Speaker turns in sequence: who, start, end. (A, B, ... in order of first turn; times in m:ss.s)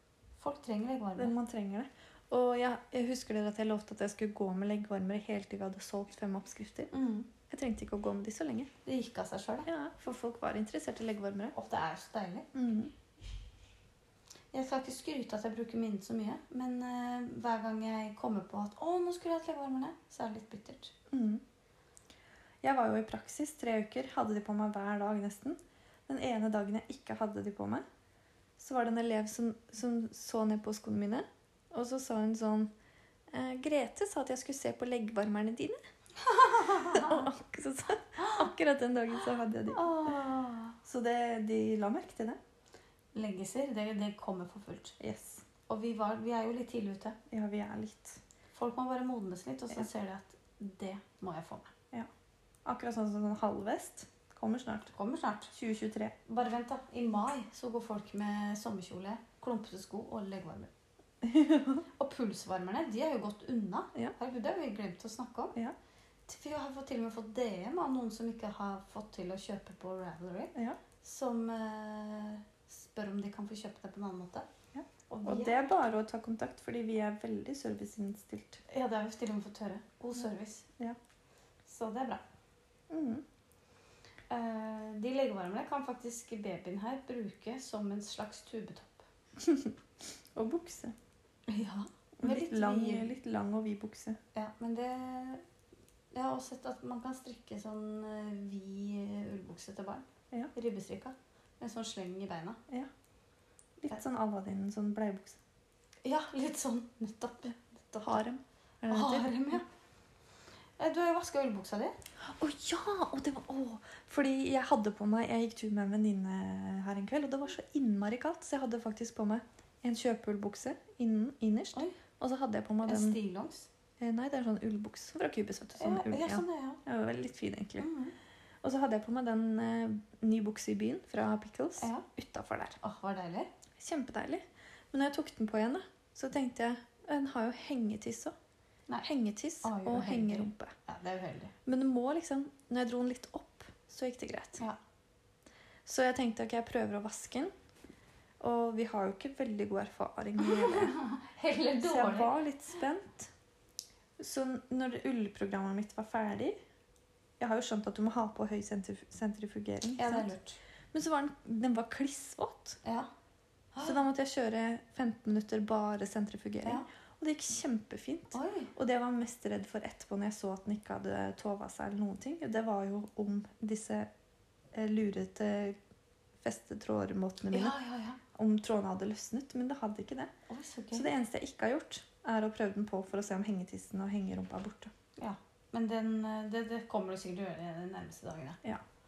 0:00.4-0:01.4 A
0:01.2-0:06.9 B
0:06.9-0:07.3 A
0:07.5-0:08.7 B
0:08.8-0:09.7 A
0:09.6-0:11.6 B
0:11.5-0:12.5 A
0:12.5-0:12.9 B
0:14.5-0:20.9 A
0:21.1-0:21.4 B
0:22.6-0:27.8 B
0:28.6-0:32.7 B
0:33.3-0:35.8 B
0:36.2-0:37.3 A
0:36.6-0:40.2 B
0:39.7-0:40.8 A
0:40.8-0:42.4 B
0:43.1-0:45.0 A
0:45.0-0:45.4 B
0:45.7-0:47.2 A
0:47.3-0:48.2 B
0:48.5-0:51.7 A
0:52.6-0:54.9 B
0:54.9-0:55.5 A
0:55.5-0:56.2 B
0:56.3-1:00.7 A
1:01.2-1:01.8 B
1:02.0-1:05.6 A
1:06.3-1:14.5 A
1:14.7-1:18.6 B
1:15.1-1:15.7 A
1:18.7-1:20.7 A
1:21.7-1:22.2 A
1:22.9-1:23.2 B
1:24.3-1:29.1 A
1:29.4-1:29.8 B
1:30.4-1:31.0 B
1:31.5-1:33.1 A
1:32.2-1:34.2 B
1:34.3-1:35.4 A
1:36.1-1:42.6 A
1:43.8-1:45.4 B
1:46.0-1:48.2 A
1:48.0-1:49.6 B
1:48.9-1:49.7 A
1:50.8-1:52.0 A
1:52.2-2:03.2 B
2:02.8-2:03.7 A
2:04.0-2:07.9 B
2:05.8-2:06.8 A
2:07.8-2:08.1 A
2:08.6-2:12.8 B
2:11.8-2:12.1 A
2:12.8-2:13.5 A
2:13.8-2:18.3 B
2:19.0-2:20.7 B
2:19.6-2:21.5 A
2:21.7-2:24.6 B
2:25.9-2:27.5 B
2:28.4-2:31.0 B
2:30.4-2:32.3 A
2:31.8-2:33.3 B
2:34.2-2:36.6 B
2:37.4-2:40.3 B
2:40.0-2:40.6 A
2:40.9-2:42.8 B
2:42.8-2:43.1 A
2:43.7-2:44.0 A
2:43.8-2:54.1 B
2:48.3-2:48.7 A
2:54.7-2:55.8 B
2:56.4-2:57.8 B
2:57.5-2:58.2 A
2:58.3-3:00.3 B
3:00.5-3:01.1 A
3:00.9-3:04.9 B
3:05.2-3:08.6 A